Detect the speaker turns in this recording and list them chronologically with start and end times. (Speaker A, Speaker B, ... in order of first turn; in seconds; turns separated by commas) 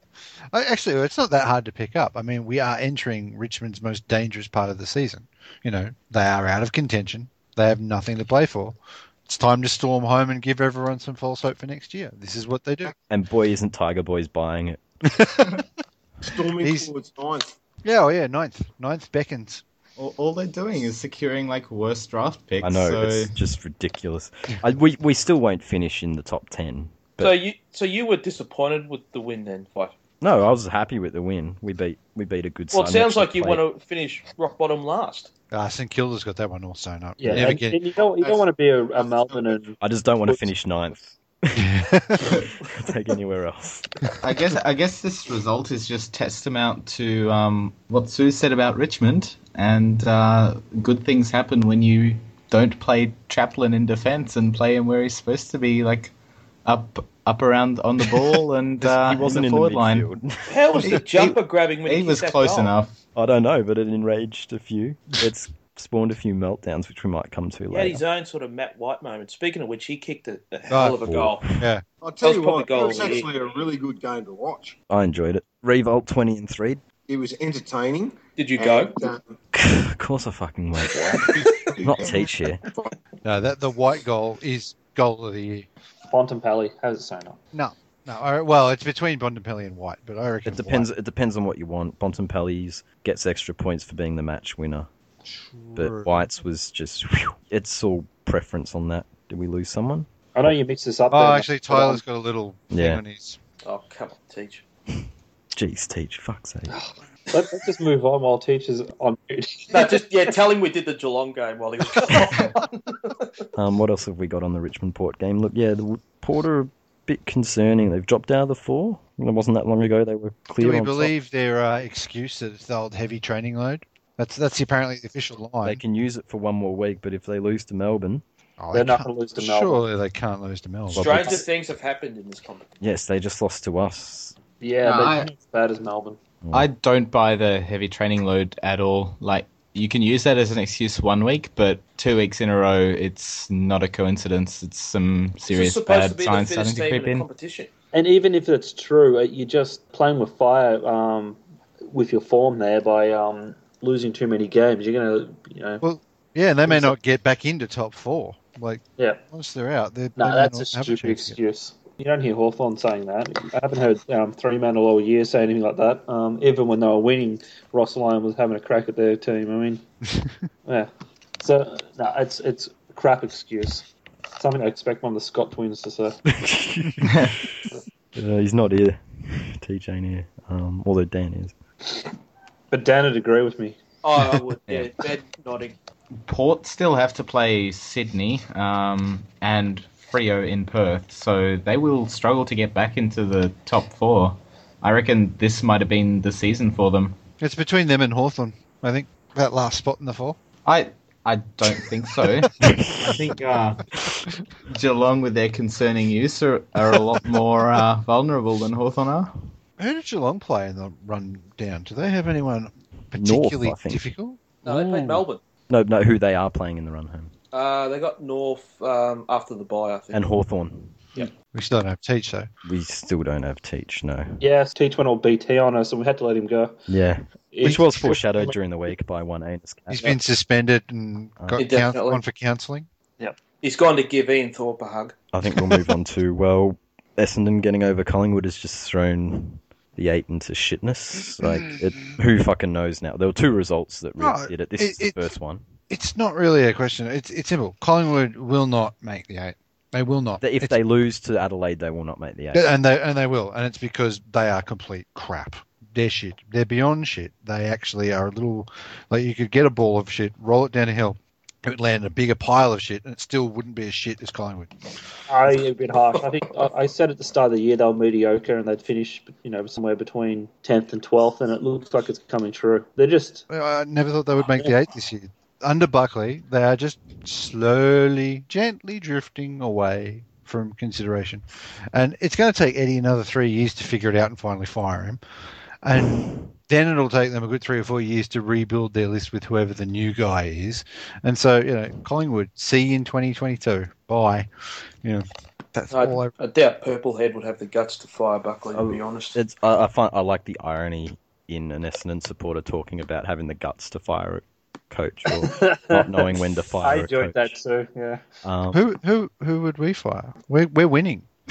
Speaker A: 0.5-12.9, Speaker B: 13.1-14.8, Speaker A: 15.1-15.6, Speaker C: 16.2-17.5, Speaker A: 16.6-16.9, Speaker A: 17.8-19.6, Speaker D: 20.0-23.4, Speaker B: 22.6-27.3, Speaker E: 27.2-29.9, Speaker B: 30.2-33.6, Speaker E: 32.7-35.3, Speaker A: 35.5-37.8, Speaker F: 37.2-39.8, Speaker C: 38.2-39.6, Speaker B: 39.8-41.7, Speaker A: 41.5-42.4, Speaker D: 42.2-42.5, Speaker B: 42.6-44.1, Speaker D: 44.2-56.1, Speaker D: 56.6-60.1, Speaker B: 58.8-61.0, Speaker E: 60.5-62.7, Speaker D: 60.8-63.0, Speaker B: 63.1-68.0, Speaker E: 67.7-71.4, Speaker A: 70.7-71.0, Speaker B: 71.0-71.7, Speaker A: 71.6-71.8, Speaker C: 72.0-74.8, Speaker E: 72.2-73.3, Speaker B: 74.9-76.8, Speaker C: 77.1-79.3, Speaker E: 78.4-79.0, Speaker B: 79.5-82.6, Speaker C: 81.1-82.9, Speaker A: 83.2-85.7, Speaker F: 86.1-87.4, Speaker A: 87.5-90.9, Speaker B: 90.5-94.9, Speaker A: 95.2-96.3, Speaker B: 95.8-100.1, Speaker F: 100.3-102.0, Speaker A: 101.1-103.4, Speaker B: 102.7-103.0, Speaker E: 103.6-104.6, Speaker B: 105.5-106.8, Speaker F: 106.7-110.0, Speaker E: 109.7-113.5, Speaker B: 113.5-121.1, Speaker A: 120.6-125.8, Speaker B: 125.6-128.2, Speaker A: 128.6-131.3, Speaker F: 128.7-129.8, Speaker B: 130.9-131.4, Speaker E: 130.9-132.7, Speaker B: 132.8-134.3, Speaker F: 134.6-136.2, Speaker D: 134.8-135.3, Speaker D: 136.5-147.3, Speaker E: 145.4-147.7, Speaker F: 147.9-155.8, Speaker A: 155.8-161.4, Speaker F: 156.7-156.9, Speaker F: 160.2-169.8, Speaker F: 170.7-173.8, Speaker F: 174.4-176.2, Speaker B: 176.3-177.6, Speaker D: 177.0-177.4, Speaker B: 178.1-181.5, Speaker F: 182.7-183.8, Speaker E: 184.0-185.7, Speaker D: 186.2-197.2, Speaker A: 197.4-200.4, Speaker D: 200.6-203.8, Speaker B: 202.6-203.1, Speaker D: 204.7-209.5, Speaker A: 209.8-214.5, Speaker B: 213.1-214.0, Speaker E: 214.6-215.4, Speaker B: 214.7-217.3, Speaker E: 217.5-220.3, Speaker B: 220.1-221.0, Speaker A: 221.5-222.5, Speaker B: 222.6-224.4, Speaker F: 224.4-226.7, Speaker B: 226.9-230.1, Speaker F: 227.5-228.5, Speaker A: 227.7-228.2, Speaker A: 229.9-232.9, Speaker B: 231.4-231.7, Speaker E: 231.6-232.2, Speaker E: 233.6-235.1, Speaker B: 235.3-245.6, Speaker A: 235.5-235.8, Speaker A: 241.4-241.7, Speaker A: 244.2-245.3, Speaker A: 245.9-250.8, Speaker B: 250.4-252.7, Speaker A: 252.5-264.7, Speaker F: 265.3-273.4, Speaker A: 273.5-285.2, Speaker A: 285.8-294.5, Speaker A: 295.0-296.3, Speaker E: 295.9-299.4, Speaker B: 298.7-307.5, Speaker F: 305.4-306.3, Speaker F: 306.8-308.2, Speaker B: 308.4-308.8, Speaker A: 308.7-311.3